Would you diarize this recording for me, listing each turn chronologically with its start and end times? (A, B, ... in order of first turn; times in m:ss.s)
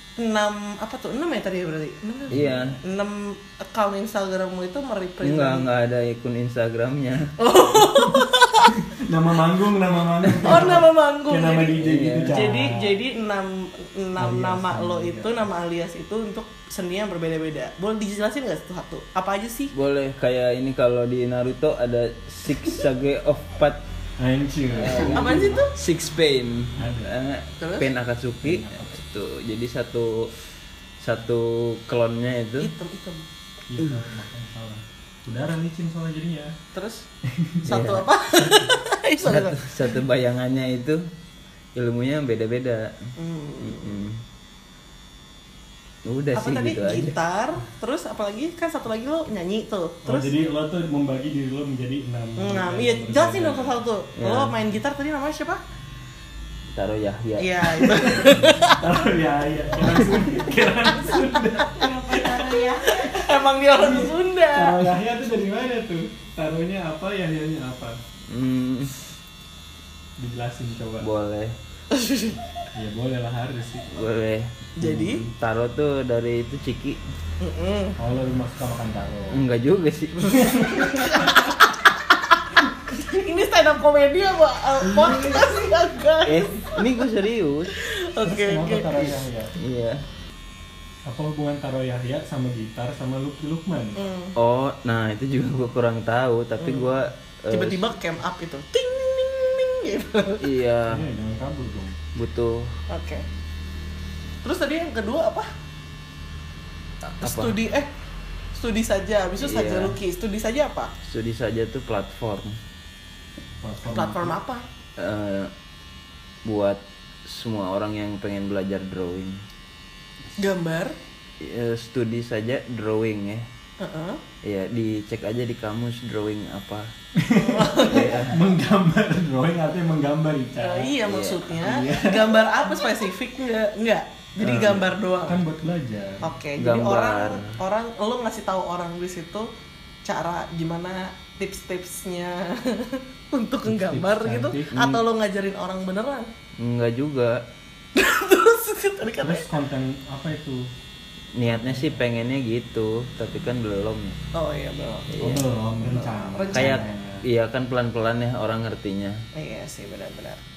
0:00.2-0:05.7 A
0:02.3-0:02.7 B
0:02.3-0:02.8 C
0:05.2-0:07.4 C
0:07.4-0:08.9 A
0:08.2-0:13.0 B
0:10.3-0:10.8 C
0:10.4-0:19.7 A
0:11.8-0:12.4 C
0:14.2-0:15.4 B
0:19.7-0:23.8 C
0:24.2-0:25.6 B
0:24.8-0:30.3 C
0:25.0-0:25.7 A
0:26.8-0:27.1 B
0:27.6-0:27.9 A
0:28.4-0:29.0 B
0:31.0-0:32.7 C
0:32.6-0:33.2 A
0:33.7-0:36.5 B
0:36.7-0:37.1 A
0:37.2-0:37.6 B
0:37.6-0:38.1 C
0:37.7-0:39.8 A
0:39.2-0:41.0 C
0:41.8-0:43.0 C
0:43.2-0:44.0 A
0:43.6-0:44.2 C
0:46.0-0:47.1 C
0:46.3-0:50.3 A
0:50.0-0:53.8 B
0:52.4-0:55.6 A
0:54.2-0:54.5 C
0:56.7-0:58.4 C
0:57.4-0:58.9 A
0:58.1-1:03.1 B
1:01.0-1:05.0 A
1:03.7-1:08.0 B
1:08.3-1:09.0 C
1:10.2-1:11.1 B
1:11.0-1:11.5 C
1:11.9-1:12.4 A
1:12.7-1:14.0 B
1:13.9-1:14.5 C
1:14.8-1:15.2 A
1:14.8-1:15.3 B
1:15.3-1:17.0 C
1:17.4-1:18.0 A
1:18.0-1:19.4 B
1:19.3-1:20.4 C
1:20.2-1:21.5 B
1:20.7-1:22.2 A
1:22.9-1:26.9 A
1:24.8-1:25.7 B
1:26.2-1:27.7 C
1:27.7-1:29.1 A
1:28.2-1:29.5 B
1:29.6-1:30.0 C
1:31.0-1:34.0 B
1:34.0-1:34.3 A
1:34.4-1:37.9 C
1:36.6-1:36.9 A
1:37.5-1:40.5 A
1:40.4-1:41.1 C
1:40.9-1:42.0 B
1:42.1-1:42.7 C
1:42.9-1:43.2 A
1:44.4-1:45.5 A
1:47.1-1:47.9 A
1:47.2-1:47.6 C
1:48.5-1:50.9 A
1:49.4-1:50.0 C
1:51.0-1:52.6 C
1:53.6-1:54.4 B
1:53.9-1:54.6 A
1:55.0-1:55.5 C
1:56.4-1:59.4 C
2:00.4-2:01.0 A
2:01.4-2:03.4 C
2:03.8-2:04.2 A
2:04.4-2:06.9 C
2:07.2-2:11.0 B
2:07.3-2:08.2 A
2:07.8-2:08.4 C
2:10.6-2:15.4 A
2:11.0-2:11.6 C
2:11.6-2:12.5 B
2:14.4-2:16.3 B
2:16.2-2:19.5 A
2:16.6-2:17.5 C
2:20.0-2:26.3 A
2:23.6-2:24.7 B
2:24.7-2:25.0 C
2:26.6-2:27.4 C
2:28.0-2:29.5 A
2:29.2-2:30.7 B
2:31.3-2:34.2 C
2:31.5-2:32.0 B
2:34.3-2:35.1 A
2:35.1-2:35.4 C
2:35.2-2:37.2 B
2:36.2-2:36.9 A
2:36.5-2:39.2 C
2:39.3-2:40.4 A